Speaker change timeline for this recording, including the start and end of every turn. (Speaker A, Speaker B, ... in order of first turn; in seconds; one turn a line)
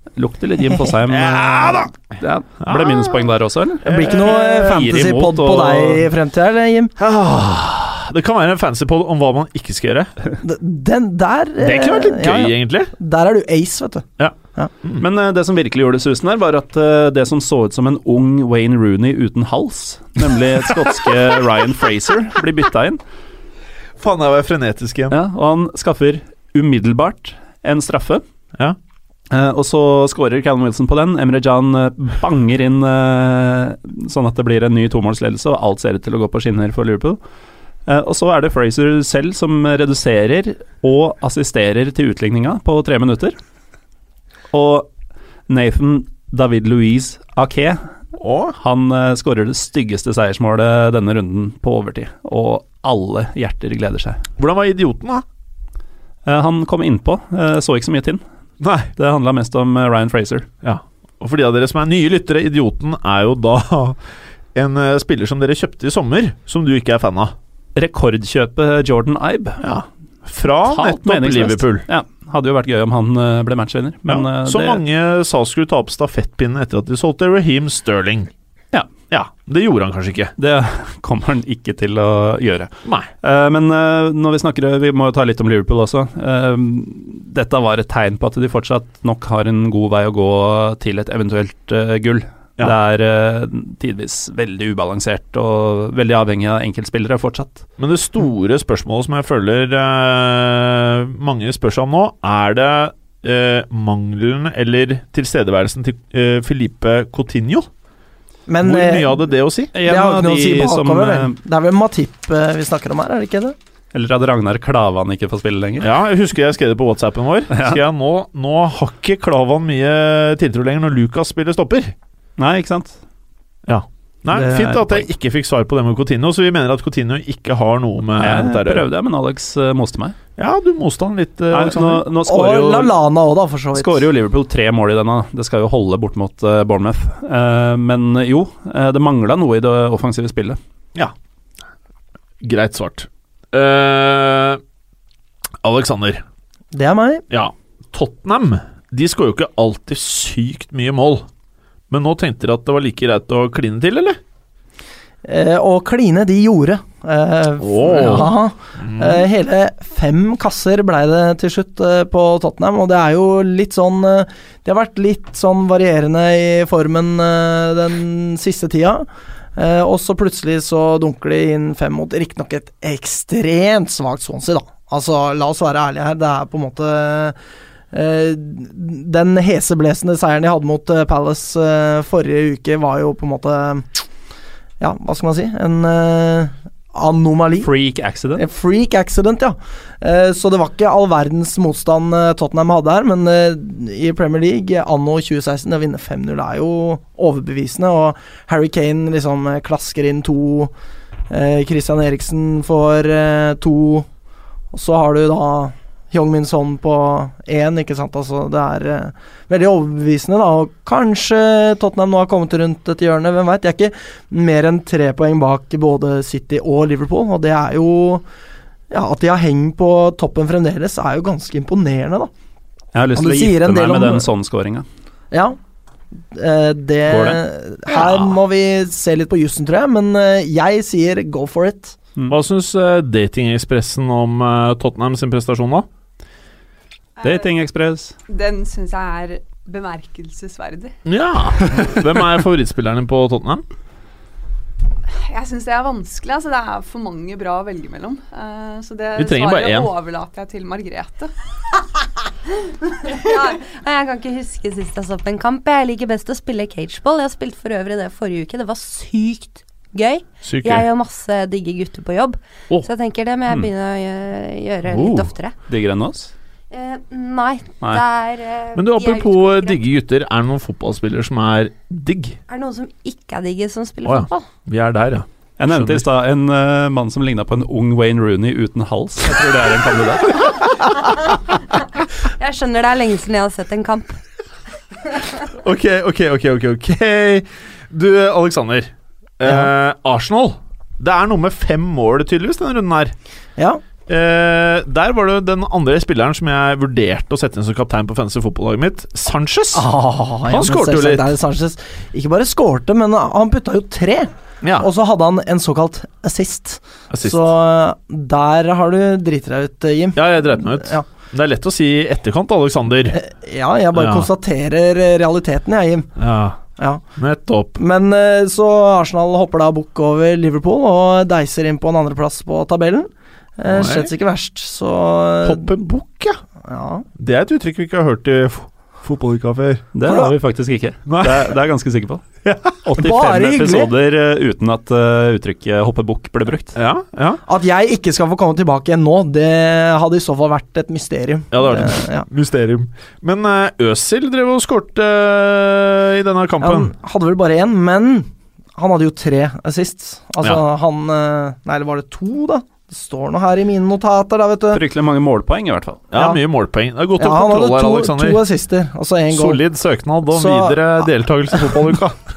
Speaker A: 0.2-6.1
Speaker B: 1.1-2.0
Speaker B: 2.6-3.2
Speaker C: 3.8-6.9
Speaker B: 3.9-4.6
Speaker B: 7.0-10.1
Speaker C: 10.4-14.7
Speaker B: 11.6-12.9
Speaker B: 14.2-15.0
Speaker A: 15.0-23.0
Speaker B: 24.0-25.2
Speaker A: 25.1-28.2
Speaker A: 29.3-37.2
Speaker A: 37.9-43.4
Speaker A: 44.5-44.9
Speaker A: 45.5-47.9
Speaker B: 48.2-48.5
Speaker A: 48.6-54.2
Speaker B: 54.4-55.2
Speaker A: 56.2-58.2
Speaker B: 58.6-58.9
Speaker A: 59.0-60.5
Speaker B: 60.6-64.0
Speaker B: 64.5-67.3
Speaker A: 67.8-69.7
Speaker B: 69.6-71.8
Speaker A: 70.6-74.8
Speaker B: 74.1-78.3
Speaker B: 79.1-80.3
Speaker A: 80.4-82.7
Speaker B: 82.8-83.1
Speaker A: 83.2-97.7
Speaker B: 97.8-107.7
Speaker C: 108.5-109.2
Speaker B: 108.6-109.7
Speaker A: 109.7-111.3
Speaker C: 109.8-113.5
Speaker A: 113.9-115.9
Speaker B: 115.8-121.9
Speaker A: 117.5-117.8
Speaker A: 122.4-123.0
Speaker B: 123.7-128.9
Speaker A: 124.3-125.1
Speaker A: 128.2-130.2
Speaker B: 130.4-132.0
Speaker A: 131.5-132.9
Speaker C: 132.2-134.1
Speaker A: 133.7-140.6
Speaker B: 142.4-144.6
Speaker B: 145.6-146.2
Speaker C: 146.7-147.2
Speaker B: 147.3-151.2
Speaker B: 151.9-154.2
Speaker C: 155.2-177.3
Speaker B: 157.6-159.2
Speaker C: 177.9-183.9
Speaker C: 184.8-187.7
Speaker A: 187.6-188.4
Speaker C: 188.3-200.7
Speaker C: 201.3-204.1
Speaker C: 204.7-218.2
Speaker C: 218.9-222.3
Speaker A: 222.9-224.8
Speaker C: 223.2-224.2
Speaker C: 225.3-225.6
Speaker C: 226.3-232.0
Speaker A: 227.1-227.4
Speaker B: 232.3-235.9
Speaker D: 237.2-237.5
Speaker A: 237.2-238.1
Speaker D: 238.3-241.0
Speaker B: 241.1-243.6
Speaker D: 245.3-251.3
Speaker B: 249.2-249.9
Speaker E: 253.1-265.5
Speaker B: 260.4-260.9
Speaker B: 264.9-265.3
Speaker A: 265.7-266.3
Speaker E: 266.7-269.8
Speaker B: 268.7-272.4
Speaker E: 272.5-274.5
Speaker B: 274.0-276.1
Speaker A: 275.6-280.5
Speaker E: 282.4-284.2
Speaker B: 285.5-293.1
Speaker B: 294.1-299.9
Speaker C: 299.7-311.1
Speaker B: 300.5-301.3
Speaker B: 304.6-304.9
Speaker B: 307.1-307.5
Speaker B: 310.1-313.2
Speaker C: 313.1-316.1
Speaker B: 313.9-314.3
Speaker B: 316.2-316.6
Speaker C: 316.8-317.0
Speaker B: 317.1-317.8
Speaker C: 317.8-325.8
Speaker B: 323.7-324.1
Speaker B: 325.4-326.4
Speaker C: 326.6-327.1
Speaker B: 327.2-329.9
Speaker A: 329.9-332.2
Speaker C: 330.0-330.3
Speaker B: 331.1-331.5
Speaker B: 332.4-332.8
Speaker A: 332.8-336.8
Speaker C: 332.9-333.9
Speaker B: 336.8-337.4
Speaker C: 337.4-342.3
Speaker B: 341.5-346.9
Speaker C: 346.6-354.8
Speaker A: 354.7-356.0
Speaker B: 356.1-358.4
Speaker C: 356.1-356.4
Speaker C: 357.2-359.6
Speaker B: 359.3-362.2
Speaker C: 360.3-361.0